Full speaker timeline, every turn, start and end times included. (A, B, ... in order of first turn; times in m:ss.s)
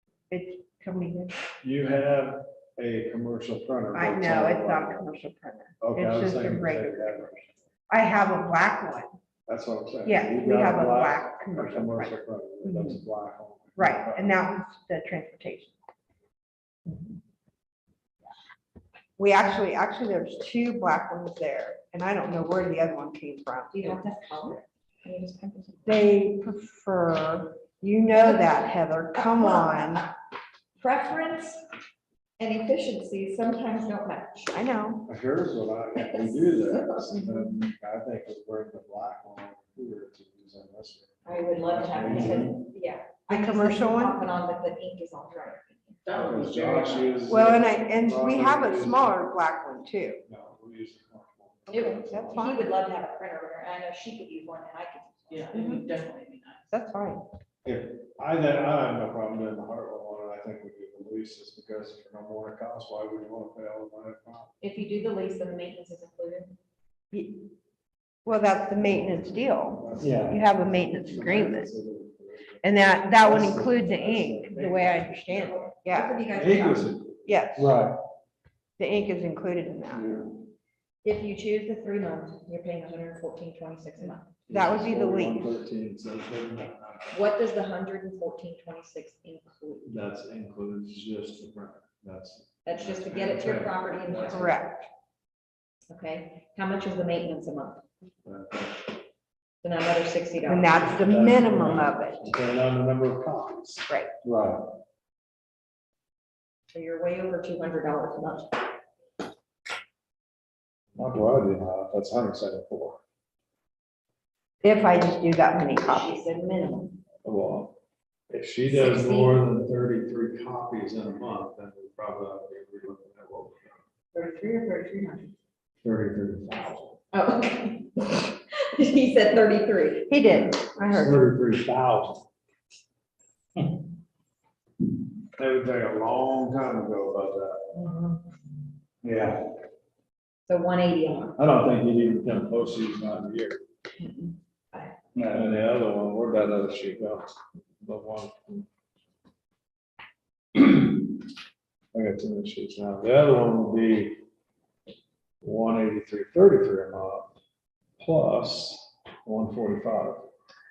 0:00.3-0:01.3 A
0:01.6-0:05.0 B
0:03.9-0:09.1 A
0:05.8-0:07.6 B
0:09.5-0:14.4 B
0:10.0-0:13.0 A
0:13.8-0:15.7 A
0:19.2-0:24.1 A
0:23.7-0:26.0 C
0:25.8-0:30.0 A
0:28.1-0:30.0 C
0:30.8-0:31.6 C
0:32.4-0:34.7 C
0:34.5-0:35.1 A
0:35.1-0:42.6 B
0:36.0-0:37.5 C
0:41.2-0:46.0 C
0:43.3-0:44.2 A
0:46.0-0:47.2 D
0:46.1-0:49.1 B
0:47.2-0:50.2 A
0:50.3-0:52.4 B
0:51.7-0:55.8 C
0:52.0-0:52.7 A
0:55.3-0:56.7 D
0:55.5-0:55.8 A
0:56.7-0:57.2 A
0:57.6-1:04.5 B
1:04.6-1:06.5 C
1:07.1-1:07.4 A
1:08.2-1:11.7 A
1:09.2-1:15.3 B
1:12.6-1:16.2 A
1:15.2-1:16.9 C
1:16.3-1:18.0 B
1:17.2-1:17.8 A
1:18.8-1:20.3 A
1:19.9-1:20.4 B
1:21.0-1:24.3 C
1:24.5-1:27.3 B
1:24.5-1:25.6 A
1:27.1-1:29.9 C
1:29.8-1:34.5 B
1:32.6-1:34.8 C
1:34.3-1:34.8 A
1:35.9-1:37.8 C
1:38.2-1:38.9 B
1:39.6-1:41.0 C
1:40.4-1:42.3 A
1:40.8-1:44.6 B
1:46.7-1:48.6 C
1:51.0-1:53.0 B
1:54.6-1:56.2 A
1:55.8-1:56.9 C
1:57.2-1:57.8 B
1:58.3-2:03.8 B
1:58.6-1:59.4 C
2:04.1-2:05.3 A
2:05.8-2:07.0 B
2:07.1-2:10.2 C
2:10.1-2:11.3 A
2:10.9-2:12.2 B
2:15.4-2:17.7 B
2:19.0-2:19.5 B
2:20.5-2:21.4 C
2:21.4-2:23.6 B
2:24.0-2:24.9 C
2:25.2-2:27.3 B
2:27.8-2:28.4 B
2:30.5-2:31.1 B
2:31.9-2:34.2 B
2:35.4-2:37.3 B
2:38.0-2:40.3 B